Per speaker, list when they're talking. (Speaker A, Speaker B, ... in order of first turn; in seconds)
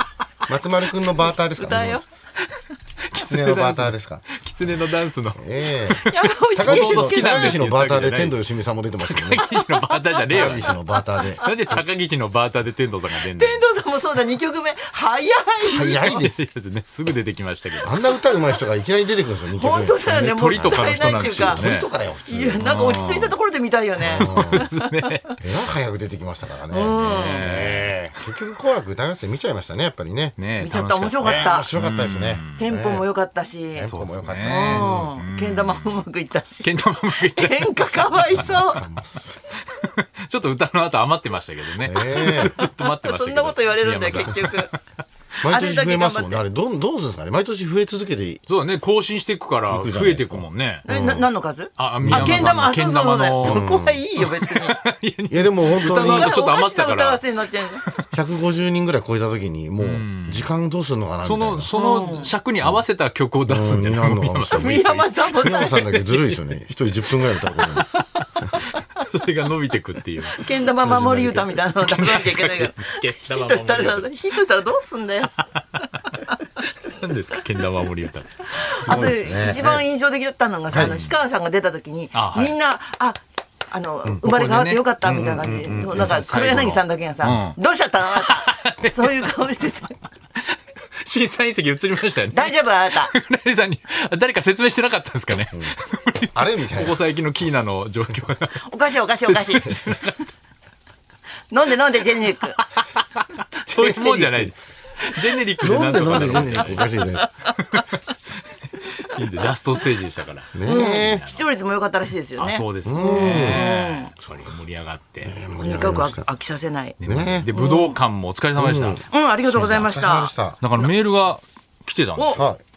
Speaker A: 0.5-2.0, 3.2-4.3, 5.4-6.0, 6.6-9.4, 10.3-11.5, 15.7-16.5, 17.8-22.6, 24.1-24.7, 25.4-30.4, 31.2-33.1, 33.8-35.1, 38.3-39.4, 41.8-42.5, 45.4-48.4, 49.7-51.3, 52.0-52.7, 53.4-54.0, 55.3-56.4, 58.1-61.7, 63.5-64.8, 65.4-67.9, 78.8-79.8, 85.0-86.3, 96.3-97.0, 103.7-104.5, 105.6-107.3, 110.5-111.2, 112.8-113.7, 115.2-116.3, 117.0-117.5, 118.6-120.6, 122.3-122.6
Speaker B: 1.6-2.0, 6.1-7.6, 9.4-10.7, 11.4-11.8, 13.2-16.2, 19.5-21.6, 22.3-25.1, 26.7-27.5, 30.6-31.7, 32.6-33.9, 34.5-38.8, 42.6-44.7, 45.5-46.4, 50.9-54.8, 55.8-57.8, 61.7-62.3, 64.5-65.8, 70.3-76.3, 78.5-90.0, 92.3-93.1, 98.6-99.9, 101.5-102.6, 106.8-107.3, 110.7-114.1, 115.6-117.0, 117.5-118.0, 119.1-120.3, 122.2-122.4
Speaker C: 3.1-8.4, 9.0-10.8, 11.4-13.6, 16.1-17.9, 20.1-21.9, 22.6-23.4, 24.0-25.4, 26.9-28.1, 30.4-32.6, 33.9-36.0, 36.6-38.8, 39.7-44.8, 48.5-50.9, 51.8-53.6, 54.2-57.2, 59.8-60.5, 61.2-66.4, 69.0-74.1, 76.8-78.3, 80.7-81.1, 82.1-82.5, 84.2-84.9, 85.9-87.6, 88.2-89.4, 90.5-98.7, 99.3-100.2, 103.7-106.9, 107.5-108.0, 109.0-111.5, 112.4-115.4, 117.0-119.0, 120.6-122.4